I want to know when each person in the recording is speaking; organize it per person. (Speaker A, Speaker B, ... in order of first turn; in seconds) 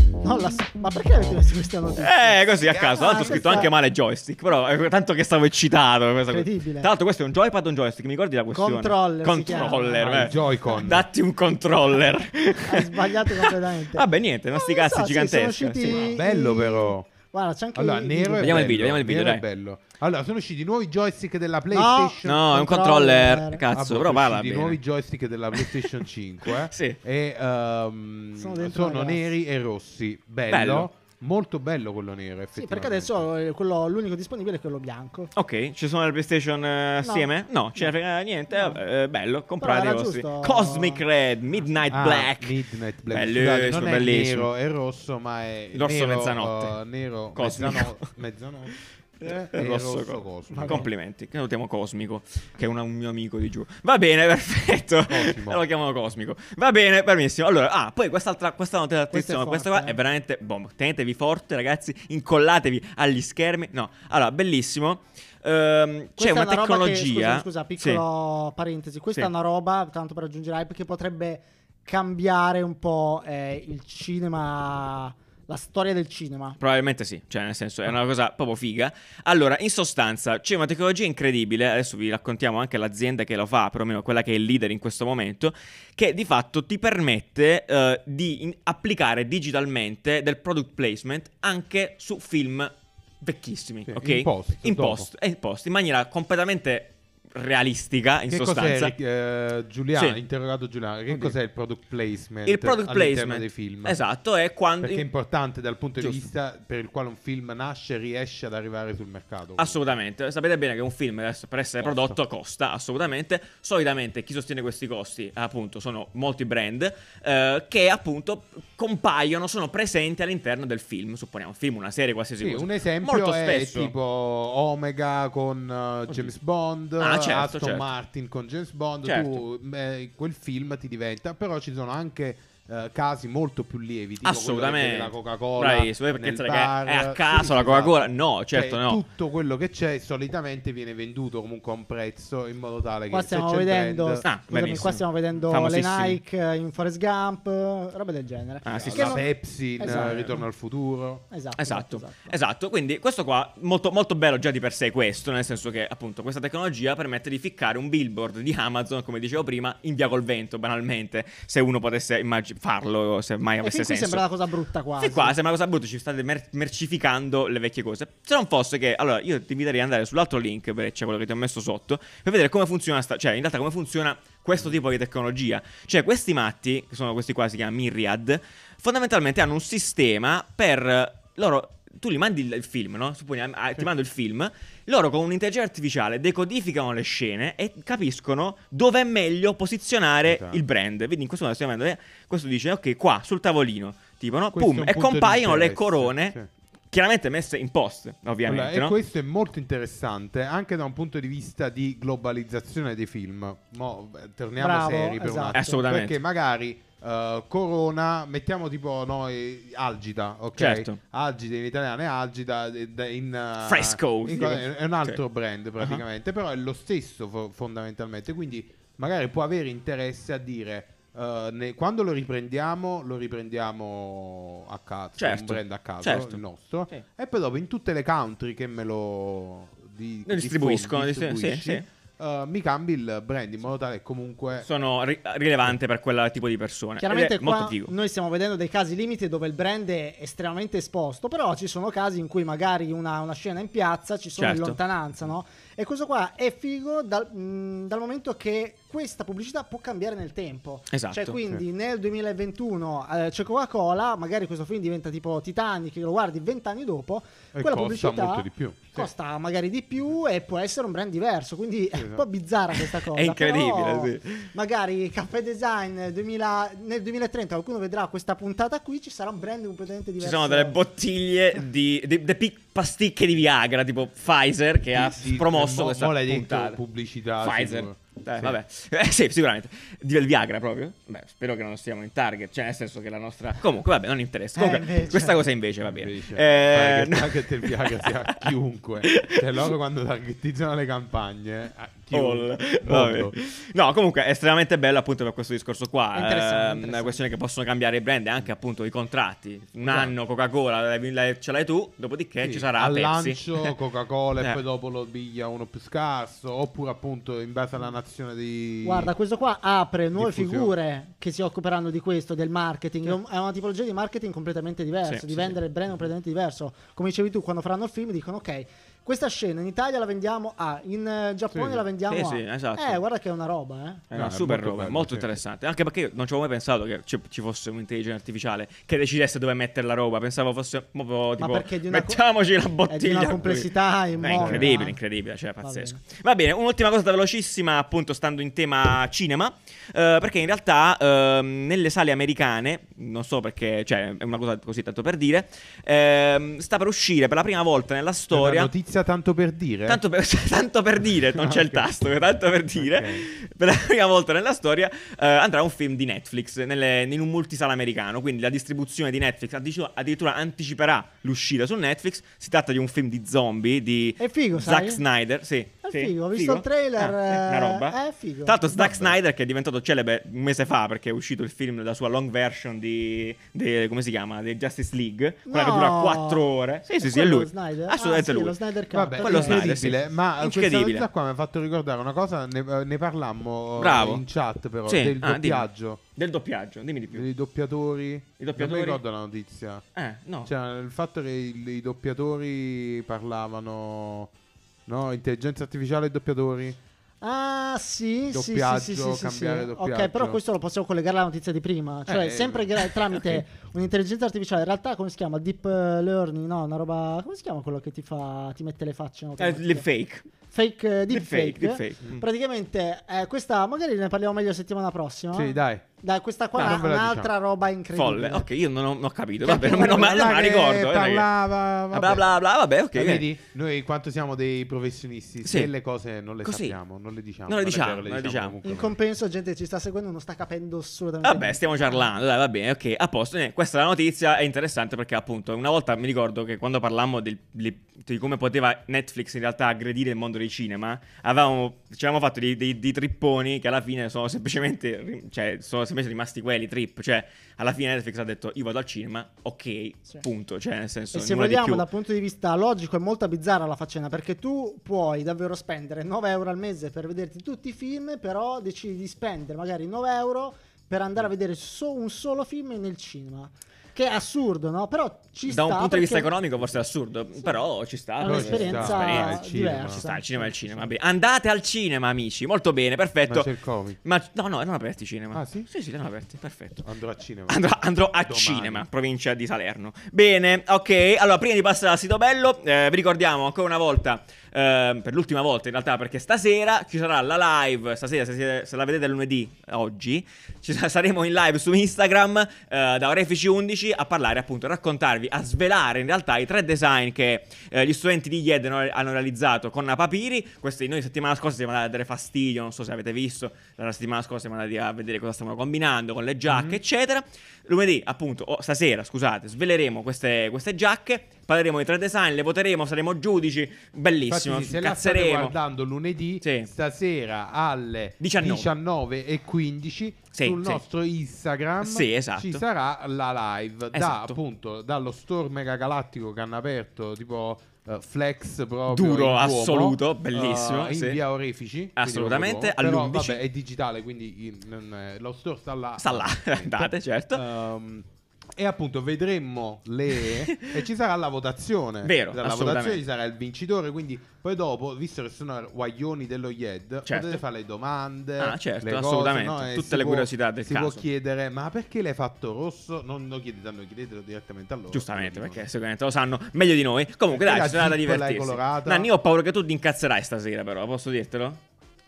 Speaker A: 0.2-2.4, 3.0-3.7, 6.3-6.9, 8.5-10.3, 12.6-18.7, 21.7-23.6, 28.3-29.3, 32.5-35.3, 37.0-37.9, 38.5-38.8, 39.6-41.0, 50.5-50.9, 59.1-60.0, 66.2-76.6, 143.1-150.4, 151.3-152.3, 163.6-165.3, 204.6-205.8, 237.0-270.8, 284.5-285.4, 296.1-297.2, 308.8-324.1, 331.4-332.3, 332.9-335.0, 335.6-336.0, 364.2-365.0, 365.8-368.6, 375.5-376.4, 377.0-379.8, 397.2-409.8, 410.5-418.4, 419.5-420.1, 428.6-432.1, 451.1-466.3, 468.2-470.8
Speaker B: 2.0-16.1, 18.4-19.4, 22.2-24.8, 25.5-27.0, 30.5-30.9, 35.3-42.5, 43.1-44.5, 45.7-46.7, 47.3-48.1, 49.2-68.0, 76.6-99.0, 99.9-100.2, 101.1-101.3, 102.5-105.1, 109.6-123.9, 127.0-127.9, 129.0-129.4, 134.2-139.0, 144.2-146.2, 148.6-149.2, 149.8-150.3, 151.6-164.2, 165.0-196.4, 196.9-198.9, 205.5-206.2, 210.6-211.0, 213.6-215.2, 225.2-227.0, 230.2-231.8, 234.6-237.9, 244.4-244.8, 250.9-251.4, 262.9-264.5, 270.2-276.8, 277.4-288.4, 289.0-289.4, 292.1-303.7, 315.0-315.5, 322.1-323.0, 324.1-348.7, 349.9-378.6, 379.2-381.1, 383.8-384.2, 384.9-387.3, 388.4-389.0, 389.9-390.5, 409.4-410.3, 411.1-412.0, 416.6-416.8, 417.9-421.3, 421.9-423.3, 425.4-425.7, 426.4-426.8, 427.4-428.6, 431.2-451.8, 465.5-473.5, 474.0-476.9, 477.5-515.5, 516.4-516.7, 518.2-518.7, 520.3-520.8, 521.8-522.6, 523.9-524.4, 528.9-531.2, 532.0-533.4, 536.0-537.4, 540.5-540.7, 542.0-543.0, 547.1-547.4, 548.4-551.0, 554.9-561.6
Speaker C: 2.6-3.7, 10.0-11.1, 15.9-17.1, 17.7-22.5, 23.7-33.2, 41.9-50.9, 55.1-55.6, 93.8-95.1, 98.3-104.0, 104.8-109.8, 111.8-112.2, 122.4-144.3, 148.7-151.2, 190.2-190.6, 194.5-196.5, 198.4-234.7, 257.5-259.1, 261.9-262.2, 274.9-278.6, 285.8-293.3, 299.8-300.1, 302.4-309.1, 310.1-310.7, 321.5-321.8, 324.1-325.3, 334.3-334.8, 348.3-350.0, 351.3-351.9, 352.7-353.2, 368.7-369.1, 378.9-386.0, 387.1-389.8, 390.4-394.3, 394.9-396.8, 398.3-400.4, 402.1-402.7, 415.3-415.8, 416.6-417.3, 419.5-422.3, 422.9-428.9, 468.2-470.0, 473.3-474.0, 475.3-475.7, 476.8-477.6, 478.2-478.9, 506.5-506.8, 514.2-555.6, 557.3-559.1